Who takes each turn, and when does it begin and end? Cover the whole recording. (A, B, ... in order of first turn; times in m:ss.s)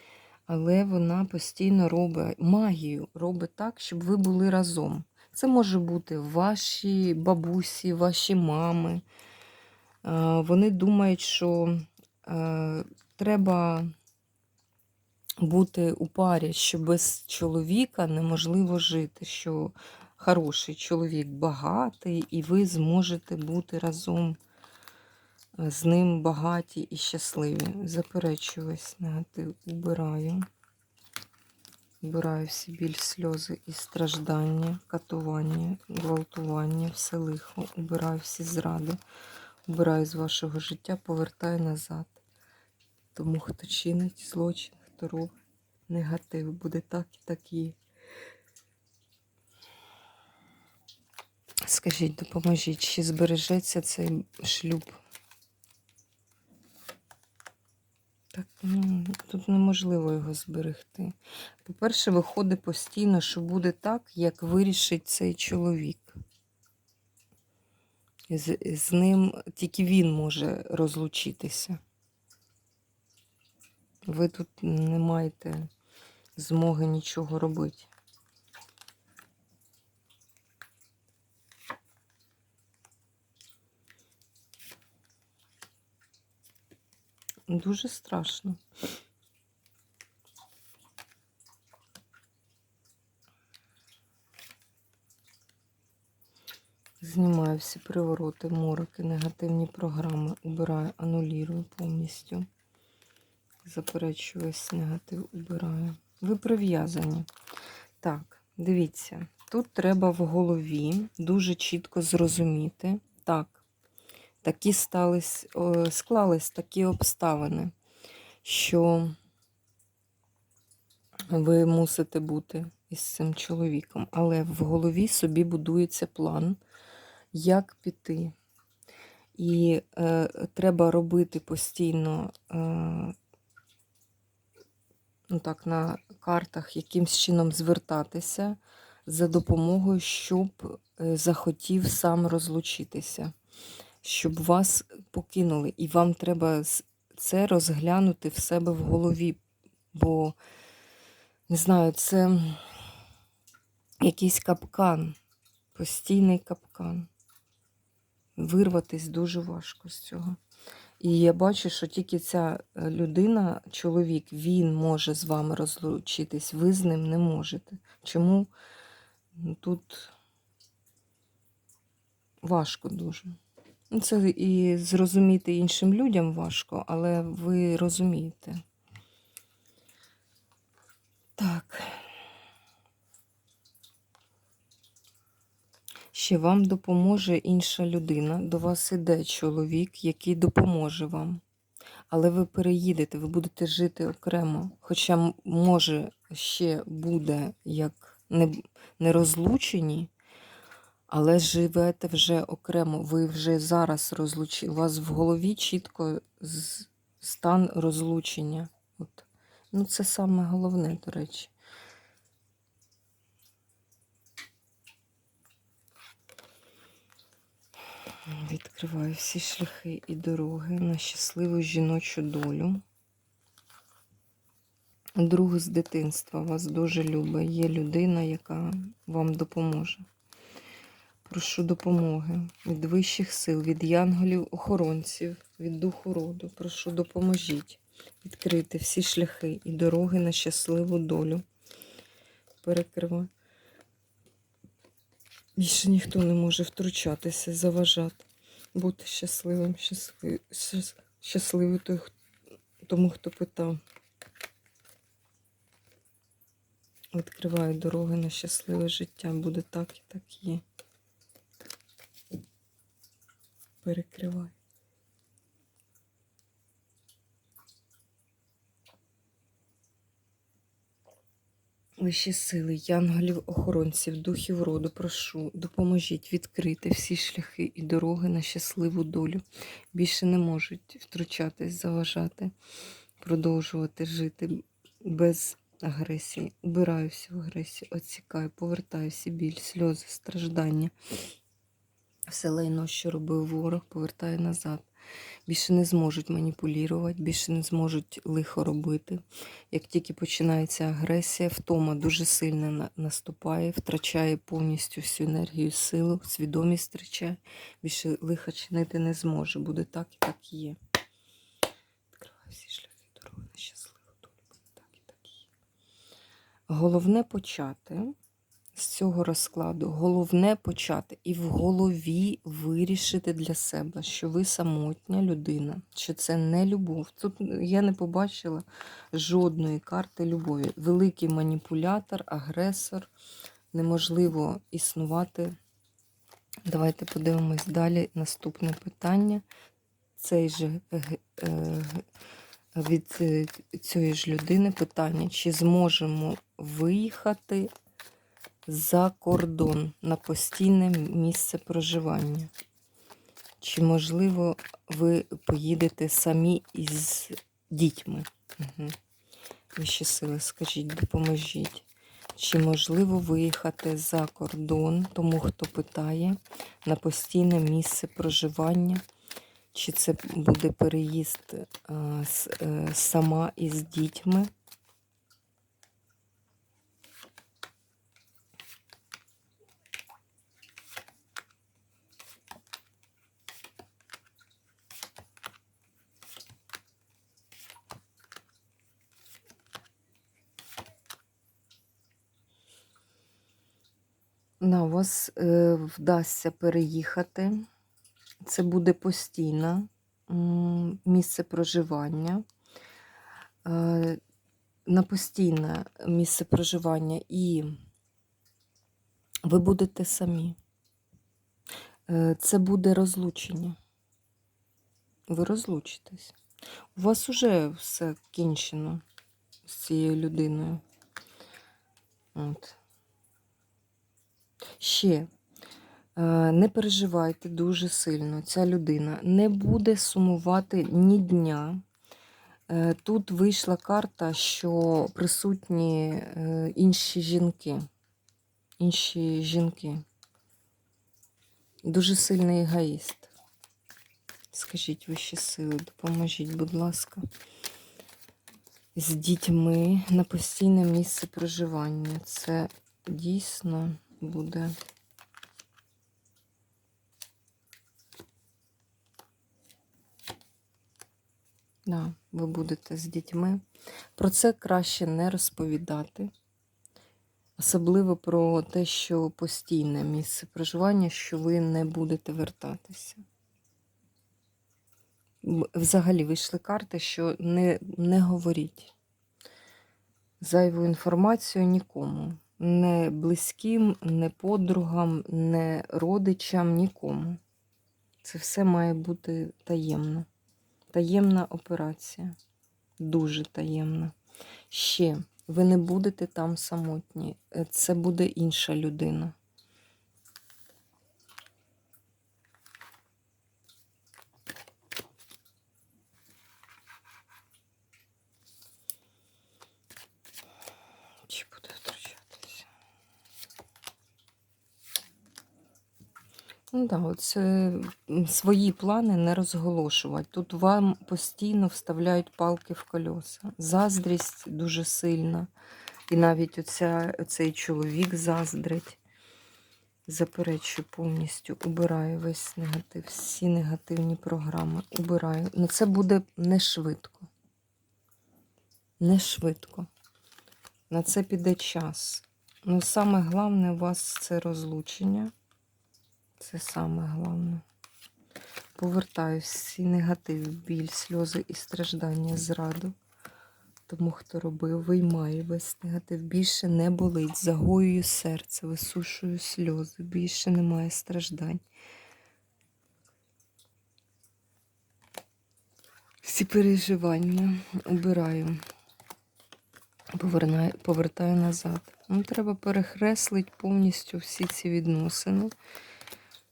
0:00.5-0:09.0 A
0:10.0-0:13.9 A
0:15.4-0:24.4 A
0:25.6-0:30.4 A
0:32.0-0:39.0 A
0:39.7-0:42.2 A
0:43.1-0:45.3 A
0:45.9-0:47.8 A
0:51.6-0:55.0 A
0:58.3-1:06.2 A
1:08.3-1:11.8 A
1:14.0-1:15.7 A
1:16.4-1:17.9 A
1:27.5-1:28.6 A
1:37.0-1:42.5 A
1:43.6-1:47.3 A
1:48.0-1:53.6 A
1:54.4-1:57.7 A
1:58.4-1:59.1 A
2:01.3-2:06.6 A
2:07.3-2:08.3 A
2:09.4-2:13.1 A
2:15.3-2:23.3 A
2:24.0-2:29.4 A
2:29.9-2:30.4 A
2:31.5-2:32.8 A
2:34.0-2:35.2 A
2:35.7-2:37.1 A
2:38.4-2:40.4 A
2:41.0-2:48.5 A
2:49.3-2:50.1 A
2:52.4-2:53.4 A
2:53.9-2:58.6 A
3:01.4-3:02.1 A
3:06.1-3:11.4 A
3:12.1-3:20.1 A
3:21.1-3:31.5 A
3:38.3-3:42.8 A
3:45.2-3:50.0 A
3:51.2-4:01.4 A
4:02.6-4:03.3 A
4:05.6-4:12.1 A
4:12.8-4:13.8 A
4:17.1-4:20.6 A
4:23.8-4:24.5 A
4:32.0-4:42.5 A
4:43.2-4:50.9 A
4:52.3-4:54.9 A
4:55.5-5:10.8 A
5:12.1-5:15.4 A
5:16.7-5:18.1 A
5:18.7-5:33.1 A
5:33.7-5:35.6 A
5:36.6-5:39.4 A
5:40.2-5:42.0 A
5:42.7-5:47.7 A
5:48.7-5:52.5 A
5:53.6-5:59.0 A
5:59.8-6:09.0 A
6:09.7-6:14.5 A
6:34.6-6:37.6 A
6:38.4-6:42.4 A
6:43.6-6:44.2 A
6:44.9-6:47.7 A
6:49.4-6:50.6 A
6:52.1-6:53.8 A
6:55.3-6:56.4 A
6:56.9-6:59.0 A
6:59.6-7:00.8 A
7:02.3-7:02.8 A
7:04.8-7:05.3 A
7:06.2-7:11.8 A
7:12.7-7:17.8 A
7:18.8-7:20.0 A
7:21.8-7:23.3 A
7:24.5-7:27.2 A
7:28.9-7:34.7 A
7:41.8-7:43.6 A
7:44.2-7:46.3 A
7:47.6-7:53.2 A
7:55.4-7:58.9 A
8:00.4-8:07.4 A
8:08.2-8:10.3 A
8:10.9-8:12.4 A
8:13.0-8:14.1 A
8:14.7-8:19.4 A
8:31.3-8:32.6 A
8:36.7-8:45.5 A
8:46.1-8:49.0 A
8:50.1-8:57.3 A
8:59.0-8:59.9 A
9:00.9-9:05.3 A
9:06.4-9:07.6 A
9:08.7-9:13.0 A
9:13.9-9:21.6 A
9:26.2-9:28.6 A
9:30.1-9:35.5 A